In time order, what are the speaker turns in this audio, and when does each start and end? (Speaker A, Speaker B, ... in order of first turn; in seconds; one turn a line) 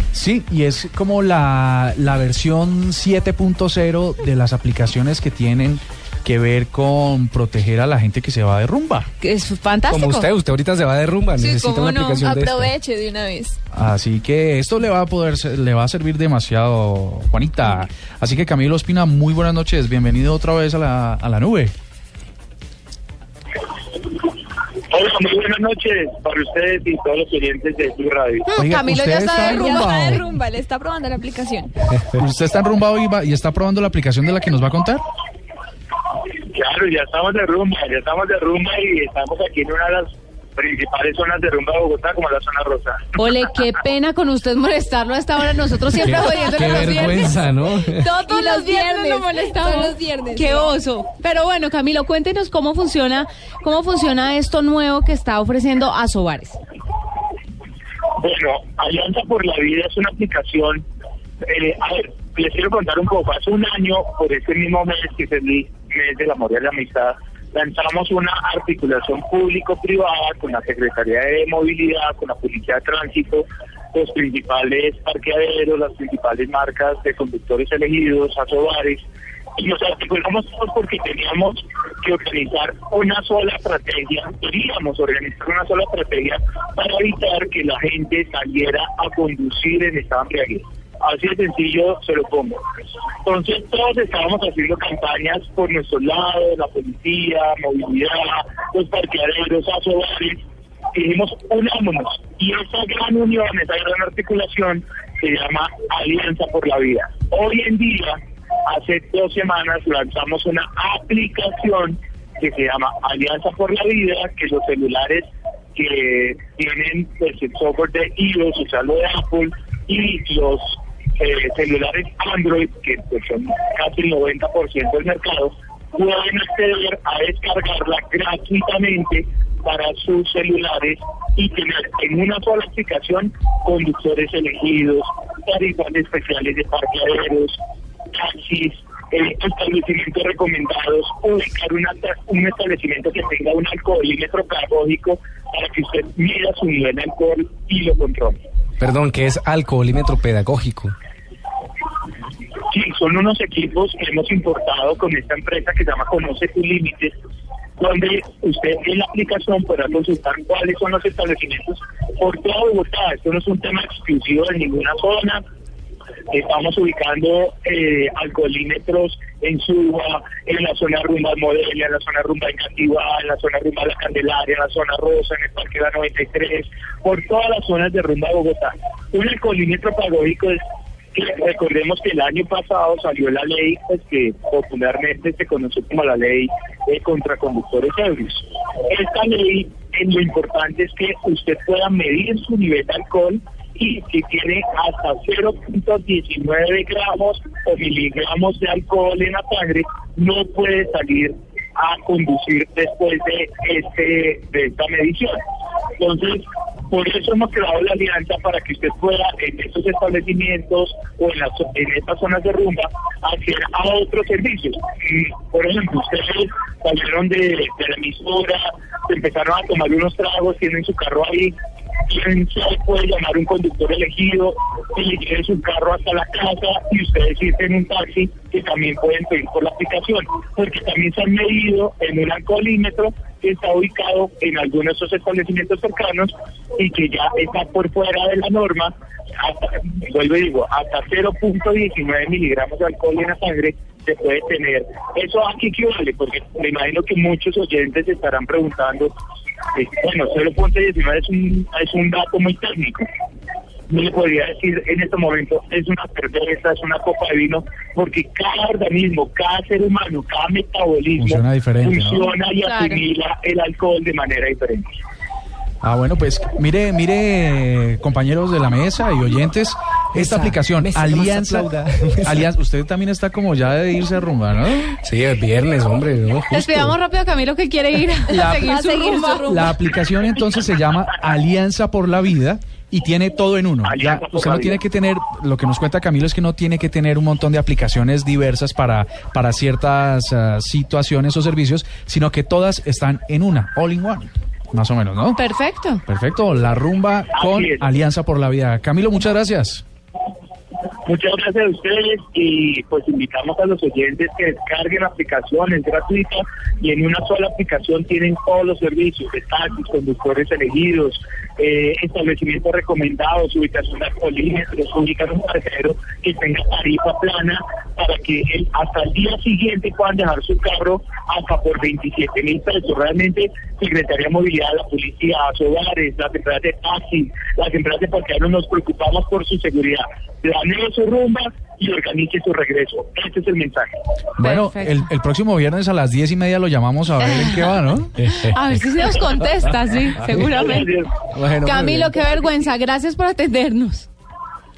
Speaker A: 0.1-9.1
Speaker B: 9.2-10.3
Speaker C: 9.9-12.7
Speaker B: 11.4-12.2
Speaker D: 12.1-13.6
Speaker A: 13.7-21.7
Speaker E: 24.9-28.5
Speaker B: 28.5-29.9
Speaker A: 28.6-30.3
Speaker D: 29.3-31.7
Speaker A: 32.1-35.0
Speaker E: 36.5-43.1
Speaker B: 43.2-56.6
Speaker C: 46.0-48.1
Speaker D: 47.9-50.7
Speaker E: 58.2-60.8
Speaker E: 61.4-79.0
Speaker E: 79.6-92.6
Speaker E: 93.2-100.4
Speaker E: 100.9-137.6
Speaker E: 138.1-148.4
Speaker C: 148.8-150.9
Speaker E: 152.7-157.1
Speaker E: 157.8-165.4
Speaker E: 166.3-180.6
Speaker E: 181.1-205.4
Speaker E: 206.0-221.5
Speaker E: 222.1-249.1
Speaker E: 249.7-253.0
Speaker E: 253.9-264.9
Speaker A: 261.2-262.3
Speaker B: 262.6-263.0
Speaker A: 265.8-275.0
Speaker C: 270.1-272.5
Speaker C: 275.0-277.0
Speaker B: 276.5-279.5
Speaker A: 278.3-278.8
Speaker D: 278.4-279.8
Speaker A: 279.4-295.4
Speaker E: 283.8-284.8
Speaker B: 295.4-296.0
Speaker A: 296.1-299.8
Speaker E: 297.4-297.9
Speaker E: 301.1-333.9
Speaker A: 334.4-338.3
Speaker B: 334.4-335.0
Speaker B: 337.2-337.8
Speaker B: 338.3-340.9
Speaker E: 340.4-341.2
Speaker C: 341.3-342.1
Speaker B: 341.6-344.1